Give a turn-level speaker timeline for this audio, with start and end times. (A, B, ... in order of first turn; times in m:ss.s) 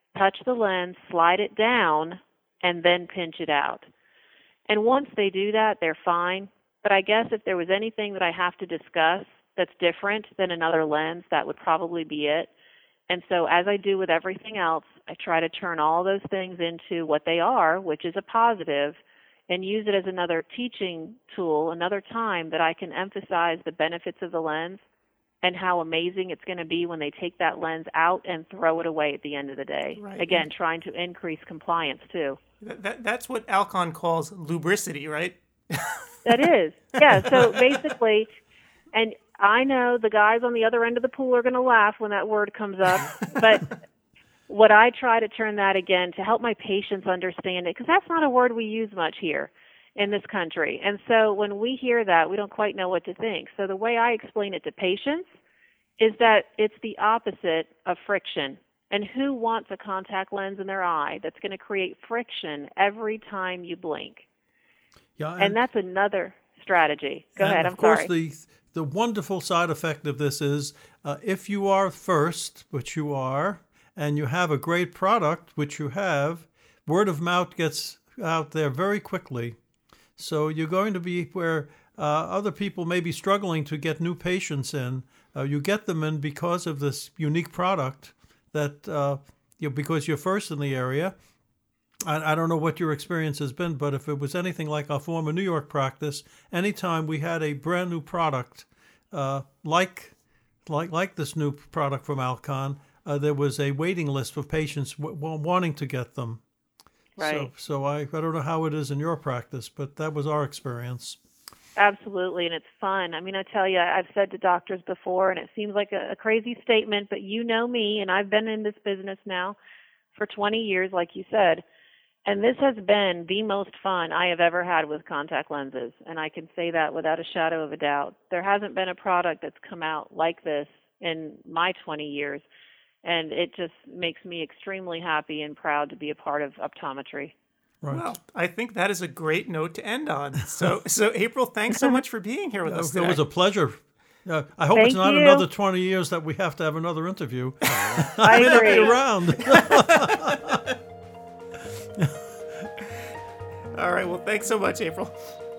0:00.1-0:03.9 A
0:04.7-0:12.5 A
0:13.1-0:24.8 A
0:25.4-0:32.4 A
0:30.0-0:30.5 B
0:32.6-0:36.2 B
0:36.2-0:38.3 A
0:37.0-0:37.9 B
0:38.9-0:43.7 A
0:44.5-0:55.3 A
0:56.0-1:04.3 A
1:05.2-1:05.6 C
1:05.4-1:08.1 A
1:07.4-1:19.6 C
1:20.2-1:31.2 C
1:32.1-1:40.2 C
1:40.7-1:46.4 C
1:47.2-1:47.5 A
1:47.2-1:51.2 C
1:51.8-1:59.6 A
2:00.2-2:01.6 A
2:02.3-2:12.4 A
2:13.0-2:17.4 A
2:17.9-2:23.2 B
2:22.7-2:30.6 C
2:24.8-2:25.4 A
2:27.7-2:30.6 B
2:28.2-2:28.9 A
2:32.0-2:32.7 C
2:33.7-2:35.3 B